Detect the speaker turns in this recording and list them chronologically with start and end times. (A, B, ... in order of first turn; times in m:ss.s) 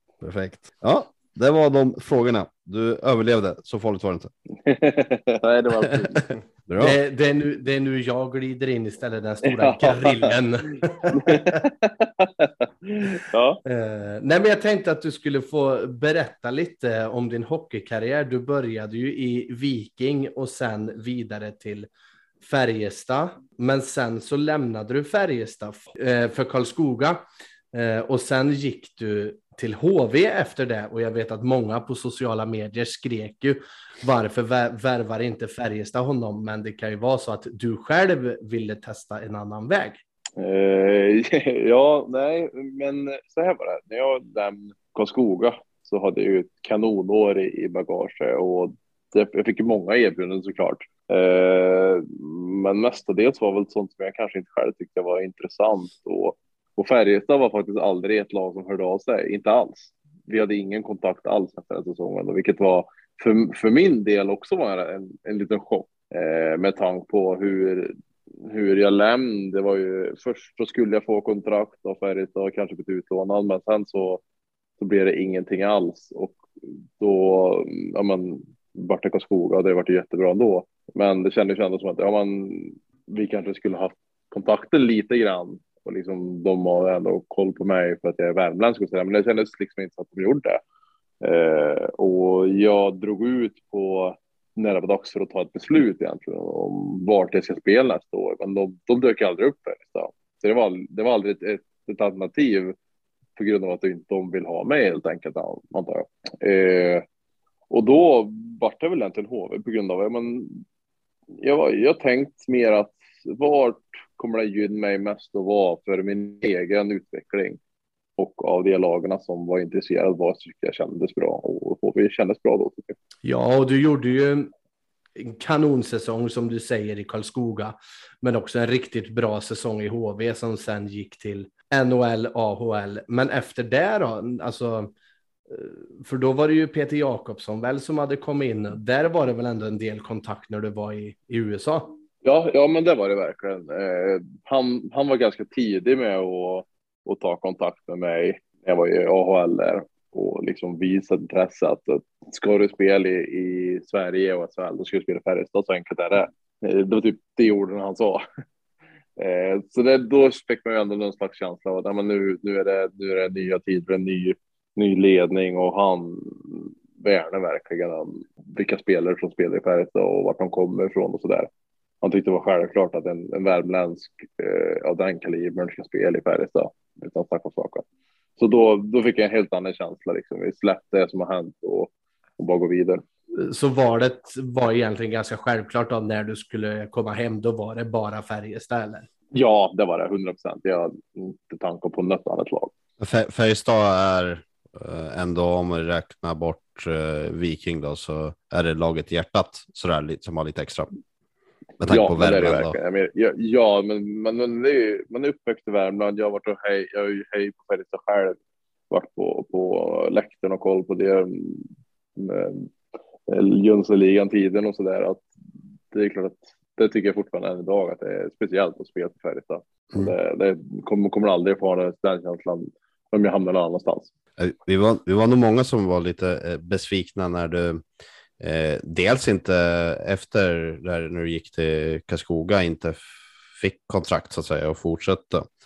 0:00.2-0:04.3 A
0:04.6-0:06.4 B
0:06.7-0:07.0 A
0:06.8-0:11.6 C
0:09.5-0:10.3 B
0:11.1-0:13.6 B
0:13.6-0:21.9 C
0:22.4-0:40.0 C
0:40.4-1:14.2 B
1:14.8-1:16.4 B
1:17.0-1:30.6 B
1:31.2-1:42.7 B
1:43.4-1:47.0 B
1:47.7-1:50.6 B
1:51.4-1:57.6 B
1:58.2-2:03.0 B
2:03.2-2:04.5 C
2:05.2-2:14.9 C
2:15.5-2:22.0 C
2:22.2-2:38.2 B
2:39.2-2:51.5 B
2:52.0-2:57.8 B
2:58.4-3:03.0 B
3:03.4-3:09.1 C
3:09.3-3:12.7 B
3:13.0-3:20.9 A
3:21.8-3:22.8 A
3:21.8-3:28.4 B
3:28.9-3:32.7 B
3:33.3-3:35.3 B
3:35.9-3:44.1 B
3:44.4-3:47.8 A
3:48.4-3:55.4 A